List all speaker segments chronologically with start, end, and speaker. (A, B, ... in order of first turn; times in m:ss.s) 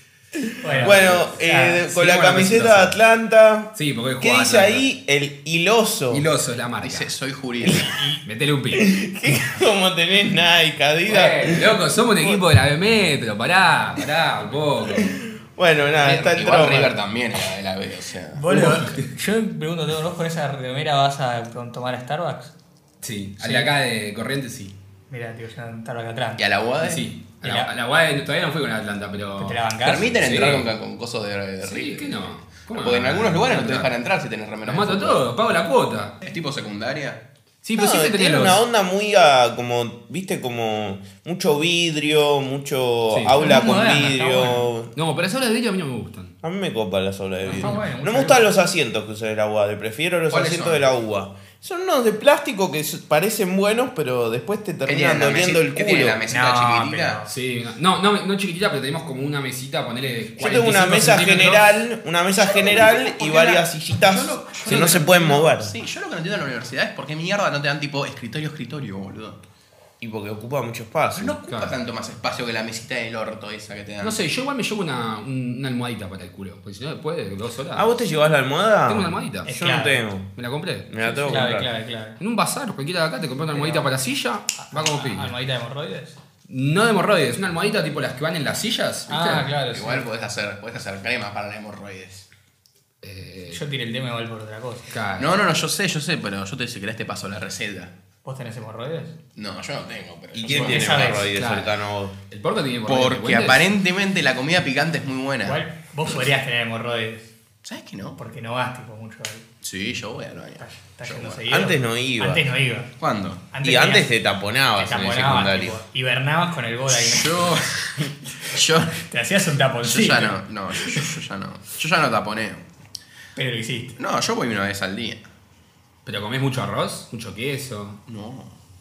0:00.3-0:06.2 A
0:00.6-0:01.8 B
0:00.7-0:01.3 C
0:01.9-0:03.0 C
0:03.7-0:04.9 C
0:06.1-0:07.1 C
0:06.8-0:08.0 D
0:07.6-0:07.9 A
0:08.0-0:08.2 B
0:08.2-0:08.9 C
0:08.7-0:12.4 A
0:11.1-0:15.2 C
0:14.9-0:17.0 A
0:15.9-0:18.7 D
0:18.4-0:22.5 B
0:18.5-0:19.0 C
0:23.0-0:24.8 C
0:23.4-0:23.7 B
0:25.1-0:26.5 B
0:26.4-0:27.1 D
0:26.8-0:29.6 C
0:27.4-0:27.7 B
0:29.4-0:30.5 B
0:29.8-0:35.3 D
0:30.2-0:30.7 C
0:31.6-0:33.9 C
0:34.7-0:36.2 C
0:36.2-0:37.2 D
0:37.6-0:38.6 C
0:37.8-0:44.9 A
0:43.1-0:43.4 C
0:43.4-0:44.7 B
0:45.0-0:46.4 C
0:46.4-0:56.2 A
0:47.5-0:48.5 B
0:50.3-0:50.9 D
0:54.9-0:57.2 D
0:56.3-0:57.3 B
0:57.3-1:01.7 C
1:00.4-1:05.7 A
1:02.4-1:09.4 D
1:04.6-1:05.1 C
1:10.0-1:11.4 A
1:11.2-1:14.2 D
1:14.0-1:17.9 C
1:17.8-1:20.3 A
1:18.9-1:19.5 C
1:19.4-1:20.0 B
1:20.4-1:21.5 C
1:20.9-1:21.7 A
1:21.3-1:22.2 B
1:22.2-1:25.3 C
1:23.5-1:23.9 B
1:24.6-1:26.2 B
1:26.5-1:29.5 C
1:29.1-1:30.1 B
1:29.7-1:32.3 D
1:33.0-1:33.6 C
1:33.5-1:34.9 B
1:34.9-1:35.3 C
1:35.2-1:37.9 D
1:38.2-1:39.2 B
1:39.4-1:41.3 D
1:40.3-1:42.2 A
1:40.4-1:41.3 B
1:41.3-1:41.7 C
1:42.3-1:43.7 C
1:42.9-1:45.6 D
1:45.4-1:47.3 B
1:47.6-1:48.2 D
1:48.2-1:49.4 B
1:49.6-1:51.4 D
1:50.6-1:52.9 B
1:51.5-1:52.4 A
1:53.0-1:53.4 D
1:53.5-1:54.1 B
1:53.6-1:55.8 A
1:54.8-1:57.6 B
1:56.9-1:59.0 D
1:59.0-2:01.1 B
1:59.8-2:02.7 D
2:03.4-2:04.0 B
2:04.0-2:05.3 D
2:06.0-2:08.0 C
2:08.1-2:08.6 D